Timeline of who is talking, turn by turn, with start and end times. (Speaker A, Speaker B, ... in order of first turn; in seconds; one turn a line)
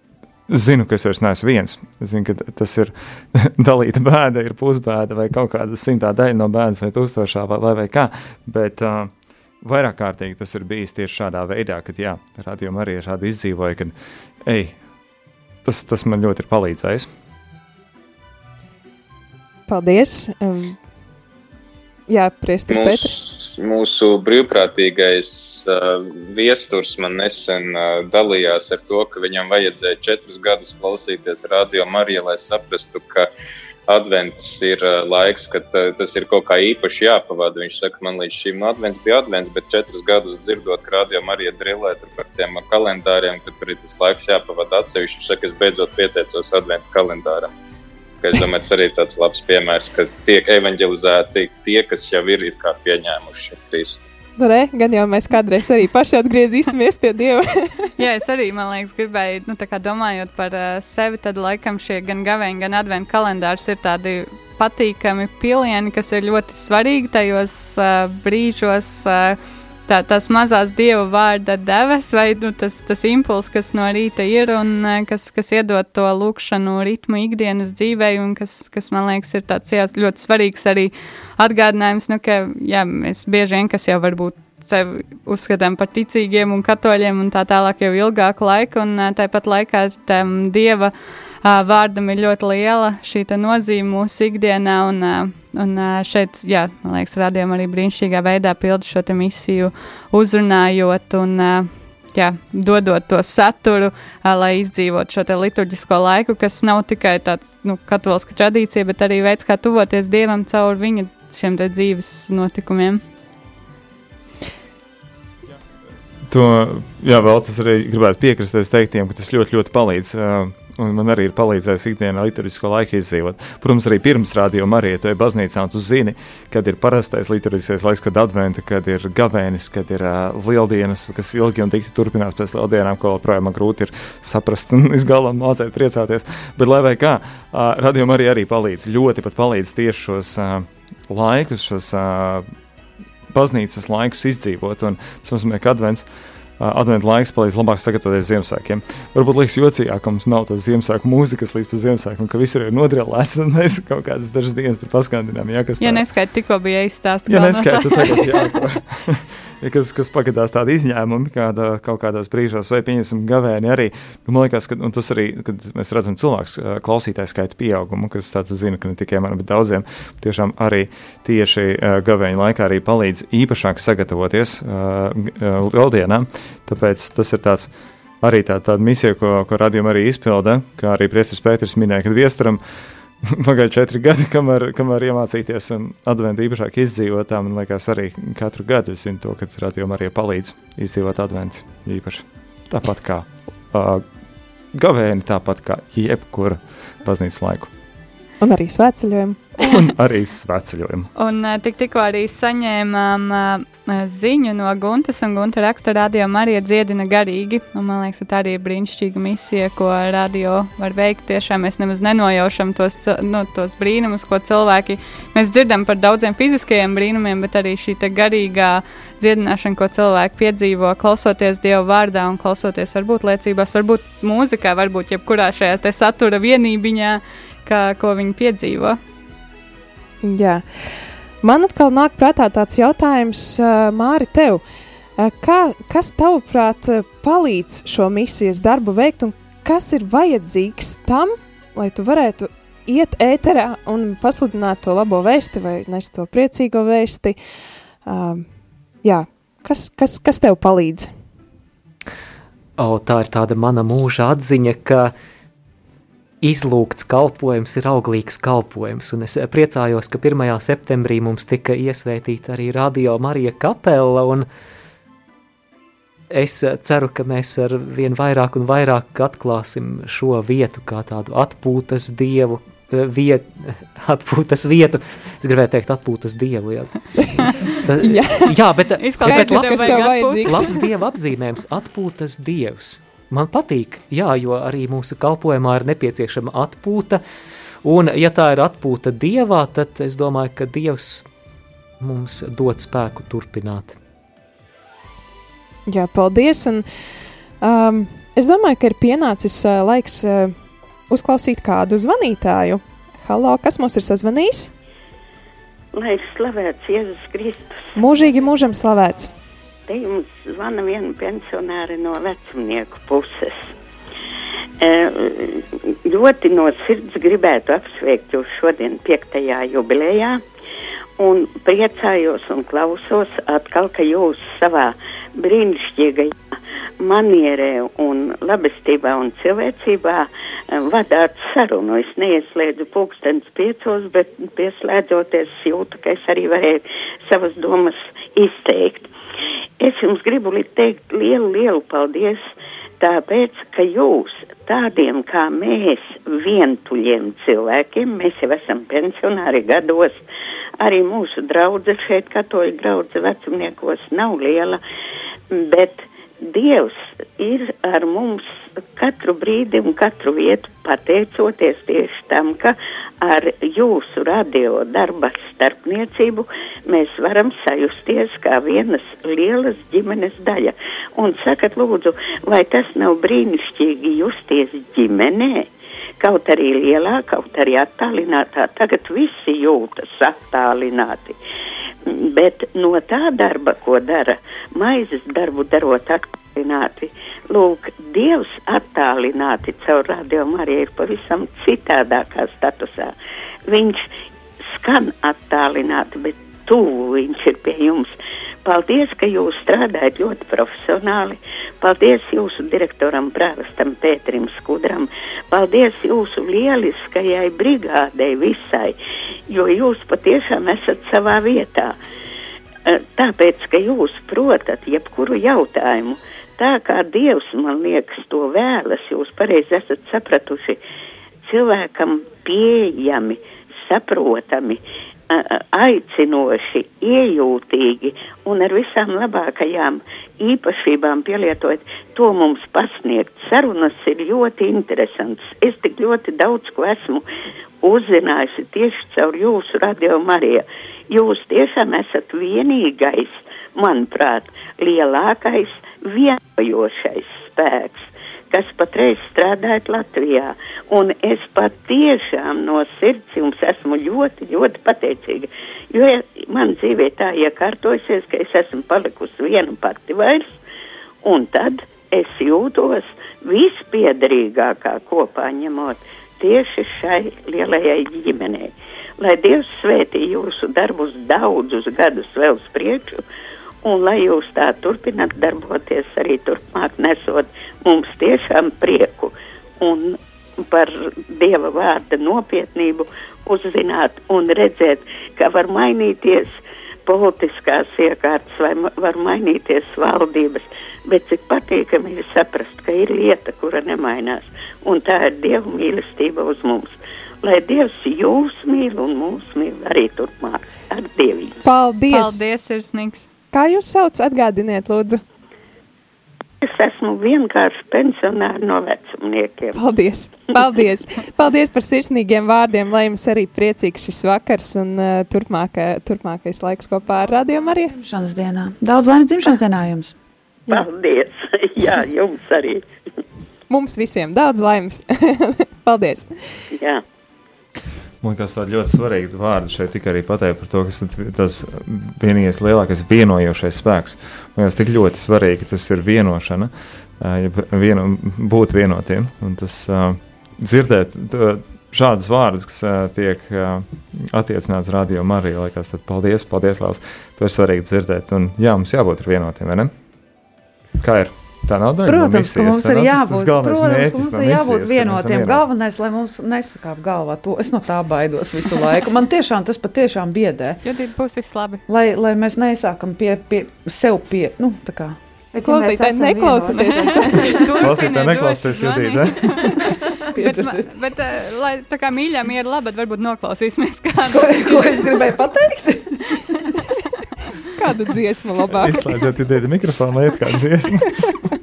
Speaker A: 0.5-14.8
Speaker A: 15.6-17.1
Speaker B: 19.7-20.8
Speaker B: 22.1-23.1
Speaker C: 22.7-33.3
Speaker C: 33.9-47.5
Speaker C: 48.2-54.0
Speaker B: 54.4-57.8
Speaker D: 58.0-90.9
Speaker D: 91.4-113.0
Speaker A: 116.3-142.5
Speaker A: 143.3-146.1
Speaker A: 146.6-156.1
Speaker D: 155.8-158.4
Speaker A: 157.3-177.7
Speaker A: 178.2-182.6
Speaker A: 183.2-194.1
Speaker A: 194.7-197.7
Speaker B: 198.4-199.4
Speaker A: 199.6-201.1
Speaker D: 201.2-229.0
Speaker B: 230.2-230.6
Speaker B: 231.4-234.6
Speaker B: 235.2-247.4
Speaker B: 248.1-248.5
Speaker B: 249.0-251.1
Speaker E: 252.8-255.1
Speaker E: 256.4-264.5
Speaker E: 266.3-277.0
Speaker E: 277.9-287.2
Speaker B: 278.0-278.5
Speaker D: 279.0-280.9
Speaker B: 279.2-280.8
Speaker E: 287.8-291.3
Speaker E: 292.0-294.0
Speaker B: 295.9-296.9
Speaker B: 297.6-300.5
Speaker B: 301.1-304.7
Speaker F: 305.9-308.0
Speaker B: 308.0-309.3
Speaker F: 309.9-313.7
Speaker F: 314.8-320.4
Speaker F: 321.2-326.4
Speaker F: 327.0-339.1
Speaker F: 339.8-342.4
Speaker F: 343.0-350.2
Speaker F: 350.8-354.8
Speaker F: 355.5-375.7
Speaker F: 376.2-381.4
Speaker F: 382.1-393.1
Speaker F: 393.7-394.1
Speaker F: 394.7-398.1
Speaker F: 398.6-409.0
Speaker F: 409.5-412.0
Speaker F: 412.9-420.8
Speaker F: 421.4-437.2
Speaker F: 437.8-460.6
Speaker F: 461.2-473.2
Speaker F: 473.8-501.6
Speaker B: 501.6-502.4
Speaker D: 502.1-503.3
Speaker B: 503.5-505.2
Speaker F: 506.6-509.8
Speaker B: 509.8-517.9
Speaker G: 517.9-520.1
Speaker F: 520.7-522.9
Speaker B: 523.7-526.3
Speaker F: 526.8-527.0
Speaker A: 528.2-549.9
Speaker A: 551.0-555.6
Speaker G: 552.1-560.8
Speaker D: 560.8-561.8
Speaker G: 561.9-565.2
Speaker H: 565.5-567.6
Speaker B: 565.6-567.6
Speaker D: 566.9-569.8
Speaker A: 567.8-569.6
Speaker G: 570.3-570.9
Speaker D: 570.3-575.3
Speaker G: 574.3-576.2
Speaker B: 577.8-579.2
Speaker A: 578.8-581.1